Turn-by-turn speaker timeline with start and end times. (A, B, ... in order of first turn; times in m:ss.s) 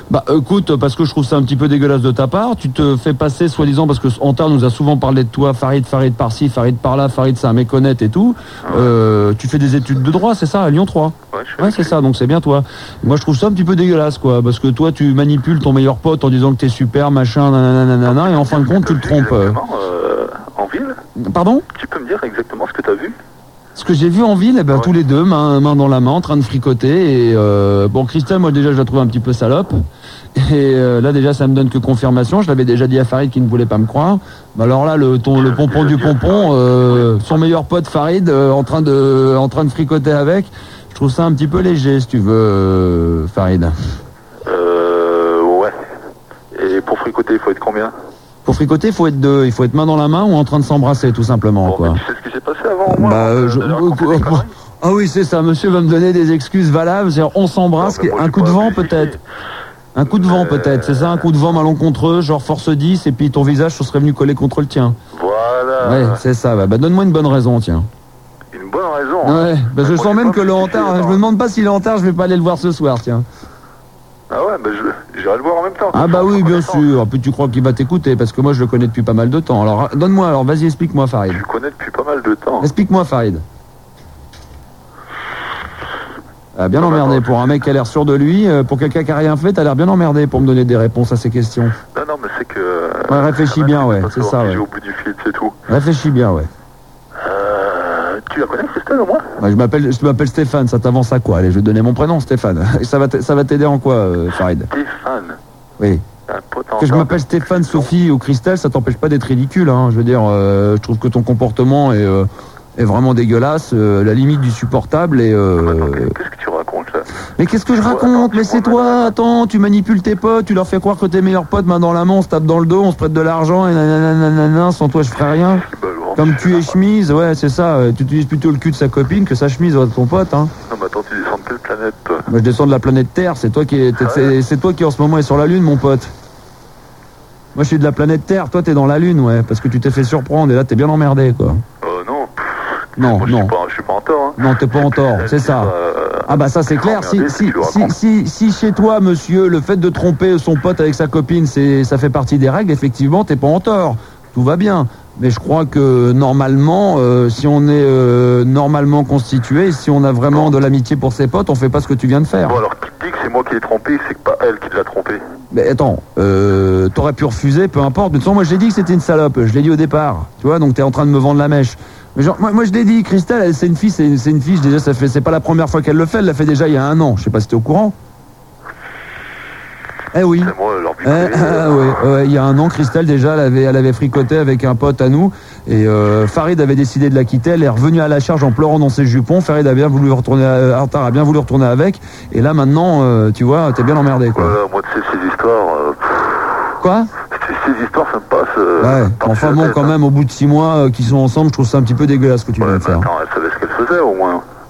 0:00.1-0:19.6 A
0:08.6-0:08.9 B
0:11.3-0:12.0 B
0:18.0-0:21.0 B
0:21.2-0:21.6 A
0:21.7-0:23.2 B
0:23.8-0:29.8 A
0:30.4-0:43.7 A
0:35.3-0:37.4 B
0:44.4-0:45.7 B
0:46.5-0:47.9 B
0:48.4-0:52.0 A
0:51.6-0:54.5 B
0:52.8-0:59.1 A
0:57.8-0:59.2 B
0:59.9-1:05.0 A
1:00.1-1:01.2 B
1:05.1-1:06.2 B
1:05.8-1:07.9 A
1:08.5-1:11.2 B
1:09.2-1:13.2 A
1:14.3-1:16.9 B
1:15.9-1:21.4 A
1:21.3-1:22.7 B
1:22.6-1:23.4 A
1:26.5-1:31.8 A
1:26.8-1:27.3 B
1:31.9-1:35.5 B
1:33.1-1:34.6 A
1:35.7-1:36.5 A
1:37.2-1:39.2 B
1:39.4-1:44.7 A
1:44.7-1:45.4 B
1:45.8-1:46.1 A
1:46.3-1:47.9 B
1:46.8-1:56.1 A
1:55.6-1:57.1 B
1:57.4-2:10.5 A
1:57.7-1:59.1 B
2:05.3-2:06.7 B
2:10.6-2:12.2 B
2:12.3-2:16.1 A
2:14.0-2:14.3 B
2:17.5-2:21.6 A
2:21.8-2:22.3 B
2:23.0-2:23.5 A
2:23.0-2:27.9 B
2:24.4-2:25.7 A
2:26.3-2:42.6 A
2:42.4-2:45.2 B
2:45.5-2:57.9 A
3:00.1-3:14.6 A
3:00.4-3:01.8 B
3:14.4-3:16.7 B
3:16.8-3:17.1 A
3:17.2-3:19.9 B
3:18.8-3:23.1 A
3:22.6-3:24.4 B